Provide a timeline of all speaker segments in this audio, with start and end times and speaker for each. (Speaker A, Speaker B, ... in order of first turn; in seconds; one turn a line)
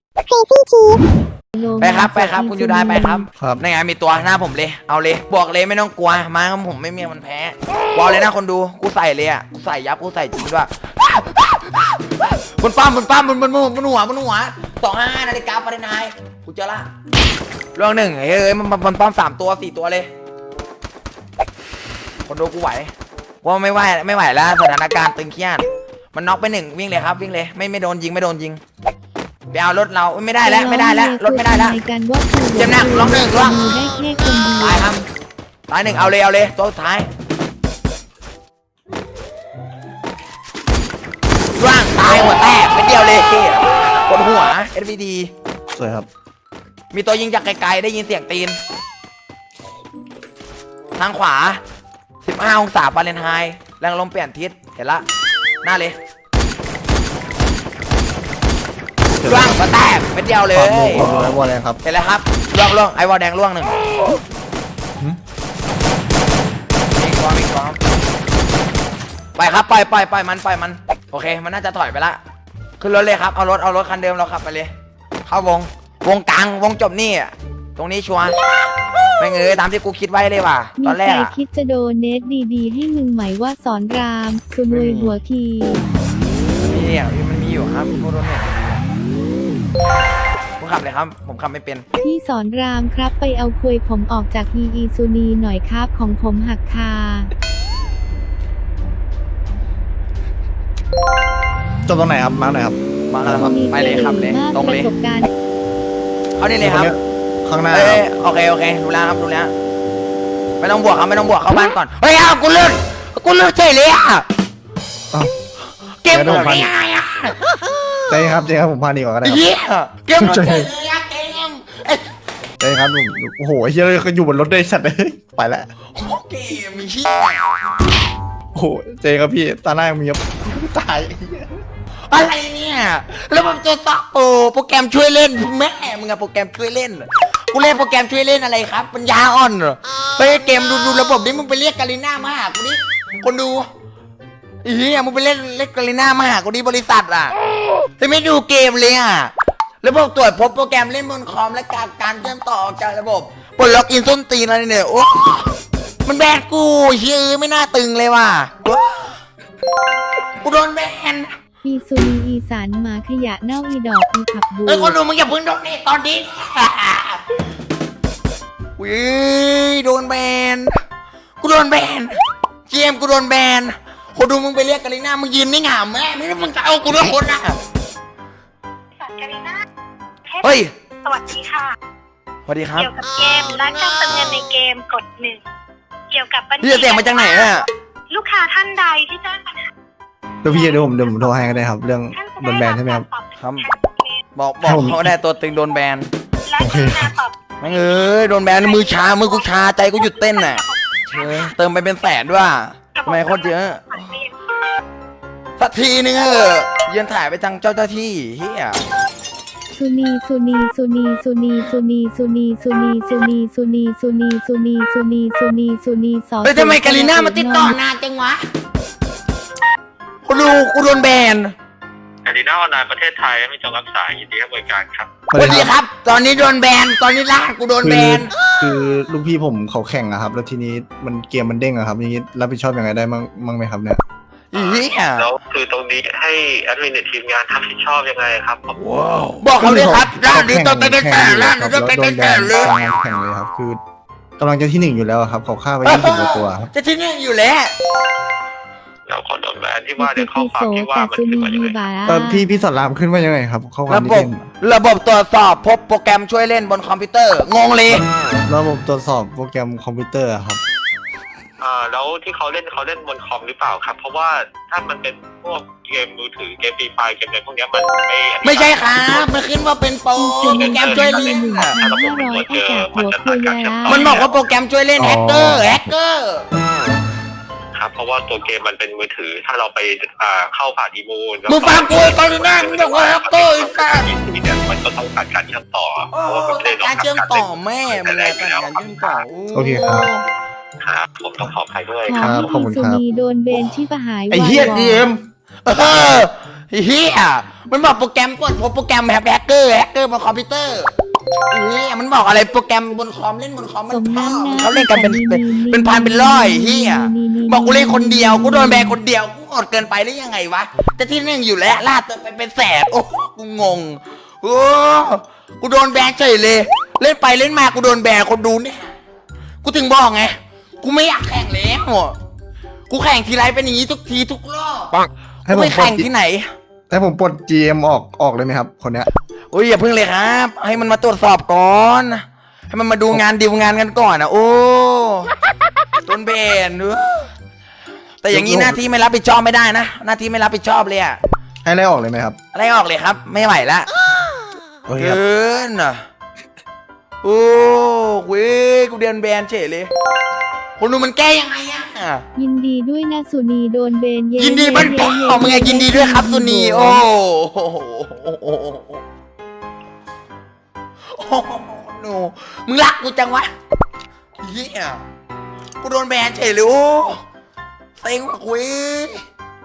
Speaker A: 1.5-3.3
Speaker B: 1.8-16.9
Speaker C: 3.4-3.6
Speaker B: 17.7-20.1
Speaker B: 22.2-22.9
Speaker B: 23.4-28.6
Speaker B: 29.5-31.8
Speaker A: 30.4-35.0
Speaker B: 32.5-35.0
Speaker B: 35.7-37.1
Speaker B: 41.5-45.3
Speaker C: 45.7-46.1
Speaker B: 46.9-48.6
Speaker B: 50.9-51.6
Speaker B: 52.2-55.0
Speaker B: 55.6-56.0
Speaker C: 59.1-59.6
Speaker B: 59.2-63.7
Speaker C: 60.5-61.8
Speaker B: 66.9-67.8
Speaker B: 69.3-72.2
Speaker B: 72.8-74.7
Speaker B: 75.2-78.4
Speaker B: 79.2-81.3
Speaker A: 80.8-85.9
Speaker B: 84.7-85.2
Speaker B: 86.6-88.8
Speaker B: 90.6-91.8
Speaker A: 92.0-97.3
Speaker C: 101.9-103.5
Speaker B: 103.1-104.9
Speaker A: 103.3-105.3
Speaker B: 106.4-106.9
Speaker C: 106.6-108.0
Speaker B: 107.7-109.5
Speaker B: 110.6-114.2
Speaker B: 116.0-118.3
Speaker C: 116.1-116.7
Speaker C: 118.1-119.5
Speaker B: 119.2-122.0
Speaker C: 120.2-120.7
Speaker C: 122.6-125.7
Speaker B: 125.9-127.5
Speaker C: 128.5-131.6
Speaker B: 132.1-143.7
Speaker B: 144.6-147.3
Speaker B: 148.0-155.5
Speaker B: 156.0-159.2
Speaker B: 160.4-161.3
Speaker A: 161.6-165.0
Speaker B: 164.7-167.2
Speaker B: 168.8-170.7
Speaker B: 171.4-177.6
Speaker D: 179.0-179.6
Speaker D: 180.3-181.8
Speaker B: 180.4-180.7
Speaker B: 182.5-184.5
Speaker D: 182.7-185.4
Speaker D: 186.1-189.7
Speaker B: 186.6-187.7
Speaker C: 190.4-193.1
Speaker D: 192.1-194.2
Speaker B: 193.4-193.7
Speaker B: 194.3-196.1
Speaker C: 194.6-195.1
Speaker D: 196.4-197.4
Speaker C: 196.6-197.1
Speaker B: 197.6-204.2
Speaker D: 200.2-200.6
Speaker D: 202.9-204.3
Speaker B: 205.6-208.8
Speaker A: 209.7-217.8
Speaker B: 216.4-218.4
Speaker B: 220.2-221.5
Speaker E: 222.2-225.1
Speaker C: 225.3-225.7
Speaker B: 225.3-228.3
Speaker C: 227.8-234.0
Speaker B: 234.5-235.3
Speaker E: 234.5-238.8
Speaker B: 238.7-242.7
Speaker C: 239.6-243.8
Speaker C: 244.4-246.7
Speaker B: 245.8-247.7
Speaker E: 249.1-251.8
Speaker A: 250.0-252.5
Speaker C: 252.1-254.4
Speaker B: 253.9-258.0
Speaker C: 258.5-260.6
Speaker E: 261.6-269.4
Speaker B: 268.4-271.8
Speaker A: 270.1-274.2
Speaker E: 270.4-274.5
Speaker B: 273.8-276.4
Speaker C: 275.0-275.6
Speaker E: 277.8-289.1
Speaker B: 281.5-284.1
Speaker B: 286.1-290.2
Speaker C: 289.5-290.1
Speaker E: 290.8-292.5
Speaker A: 292.1-295.1
Speaker C: 292.1-293.0
Speaker C: 294.3-295.2
Speaker B: 295.6-300.9
Speaker B: 301.5-318.9
Speaker A: 303.9-309.0
Speaker B: 319.6-322.1
Speaker B: 322.9-324.9
Speaker C: 325.4-326.1
Speaker B: 325.5-326.5
Speaker C: 326.9-329.1
Speaker B: 329.5-335.3
Speaker B: 336.0-337.3
Speaker B: 338.2-341.2
Speaker C: 338.3-338.8
Speaker C: 341.6-342.4
Speaker B: 342.5-343.9
Speaker C: 344.9-345.2
Speaker B: 345.0-346.0
Speaker B: 347.2-349.9
Speaker B: 350.8-352.2
Speaker A: 352.4-357.0
Speaker B: 354.4-359.0
Speaker B: 361.1-363.5
Speaker B: 364.4-365.0
Speaker B: 365.8-367.2
Speaker B: 368.0-369.2